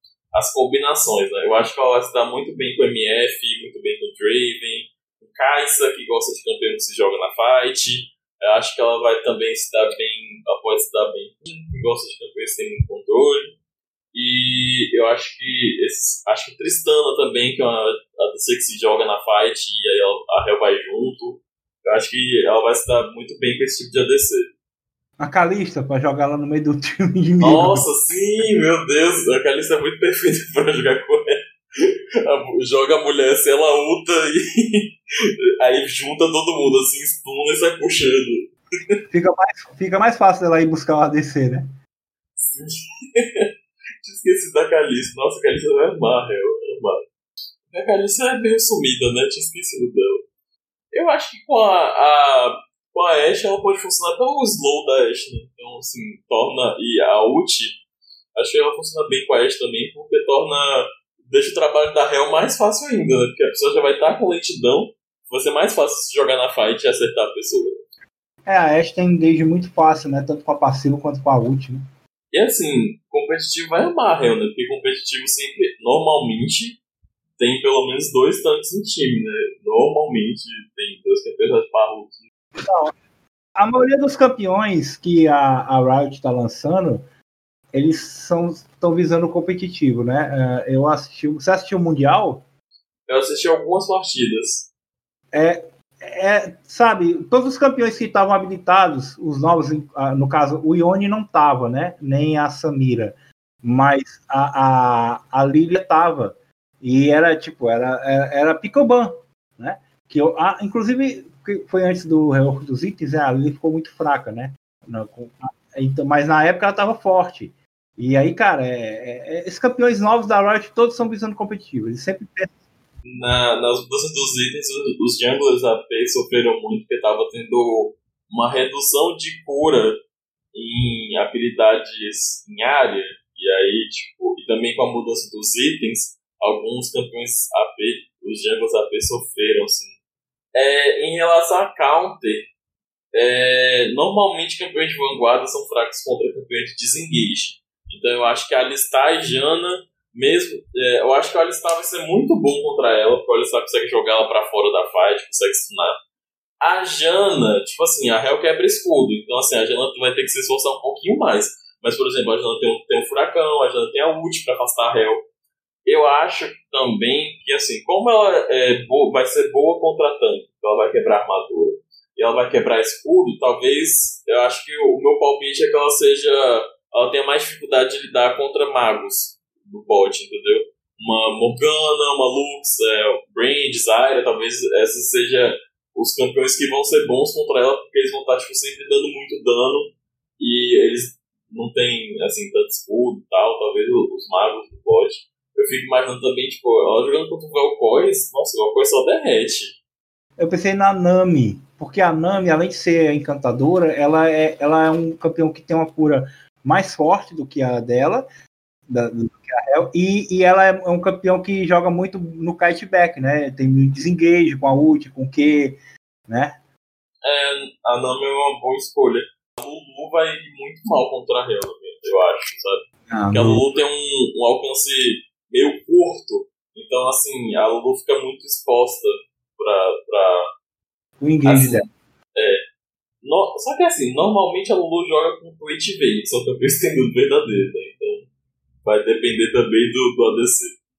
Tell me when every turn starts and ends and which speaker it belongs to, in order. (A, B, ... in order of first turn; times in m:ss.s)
0:00.3-0:13.6 A
0:14.1-0:24.5 A
0:25.2-0:27.9 B
0:27.4-0:35.0 A
0:35.6-0:39.0 A
0:39.1-0:41.8 B
0:42.4-0:43.5 A
0:44.0-0:47.0 A
0:47.7-0:50.2 A
0:50.9-0:57.8 A
0:58.4-1:07.8 A
1:08.4-1:11.9 B
1:12.3-1:16.8 A
1:17.4-1:22.2 A
1:22.6-1:22.9 B
1:23.6-1:27.0 B
1:27.7-1:32.4 B
1:33.1-1:34.7 A
1:35.3-2:02.6 B
2:03.0-2:10.0 A
2:10.5-2:20.0 A
2:20.5-2:22.5 A
2:23.1-2:36.0 A
2:36.6-2:45.2 A
2:45.9-3:19.8 A
3:20.4-3:28.3 B
3:28.9-3:36.6 B
3:37.2-3:50.5 A
3:43.1-3:43.6 B
3:51.2-3:51.9 B
3:51.4-3:52.6 A
3:53.2-3:58.3 A
3:58.8-4:00.7 A